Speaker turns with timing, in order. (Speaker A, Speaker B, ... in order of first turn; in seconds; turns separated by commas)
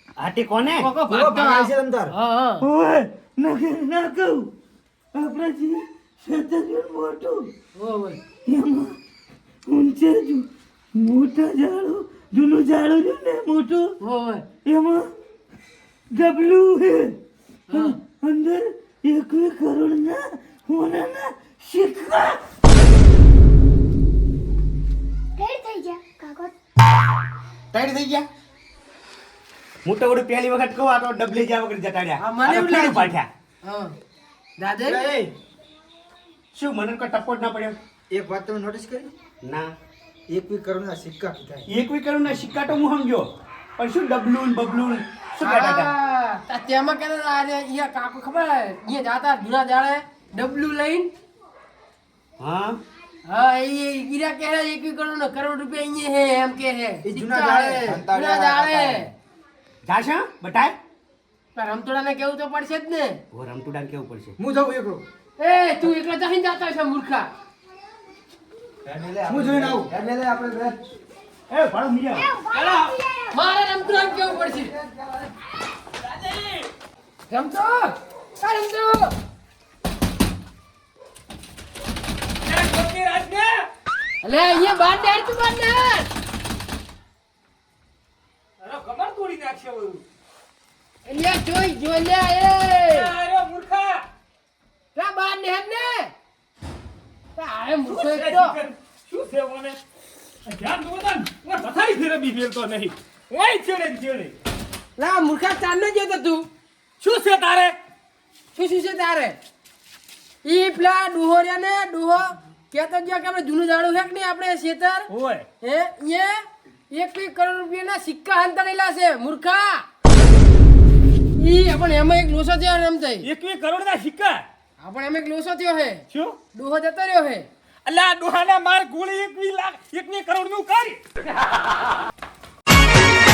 Speaker A: 0.2-0.9, Speaker B: 0.8-2.7, Speaker C: 1.1-2.1, Speaker D: 2.6-4.5, Speaker D: 5.1-7.5, Speaker B: 7.8-8.2, Speaker D: 8.5-8.9, Speaker D: 9.7-13.9, Speaker B: 14.0-14.5, Speaker D: 14.7-15.1, Speaker D: 16.1-17.1, Speaker B: 17.7-18.0, Speaker D: 17.7-22.4, Speaker E: 25.4-26.5, Speaker A: 27.7-28.3, Speaker A: 29.9-33.3, Speaker B: 32.2-33.9, Speaker B: 34.6-35.1, Speaker C: 34.9-35.3, Speaker A: 36.5-37.8, Speaker C: 38.1-39.1, Speaker A: 39.4-39.7, Speaker C: 40.3-41.7, Speaker A: 41.7-45.9, Speaker B: 45.4-51.1, Speaker A: 52.4-52.8, Speaker B: 53.2-59.1, Speaker C: 57.0-59.1, Speaker A: 59.9-60.8, Speaker B: 61.5-63.2, Speaker A: 63.3-64.4, Speaker C: 64.4-65.0, Speaker B: 65.4-67.3, Speaker C: 68.8-70.8, Speaker A: 71.5-72.4, Speaker E: 72.2-73.3, Speaker D: 72.5-72.9, Speaker B: 73.3-74.8, Speaker C: 74.6-75.2, Speaker B: 77.3-79.1, Speaker D: 82.4-83.7, Speaker B: 84.2-86.1, Speaker D: 88.6-90.0, Speaker B: 91.0-93.1, Speaker D: 92.9-94.0, Speaker B: 95.0-96.1, Speaker B: 97.4-98.6, Speaker D: 97.9-99.8, Speaker D: 100.5-104.3, Speaker B: 105.0-106.5, Speaker D: 107.0-107.8, Speaker B: 108.5-109.4, Speaker B: 110.4-115.1, Speaker D: 115.1-115.5, Speaker B: 115.6-119.8, Speaker B: 121.4-123.3, Speaker D: 123.2-124.4, Speaker B: 124.8-126.0, Speaker D: 126.1-126.4, Speaker B: 126.5-127.5, Speaker D: 127.9-131.0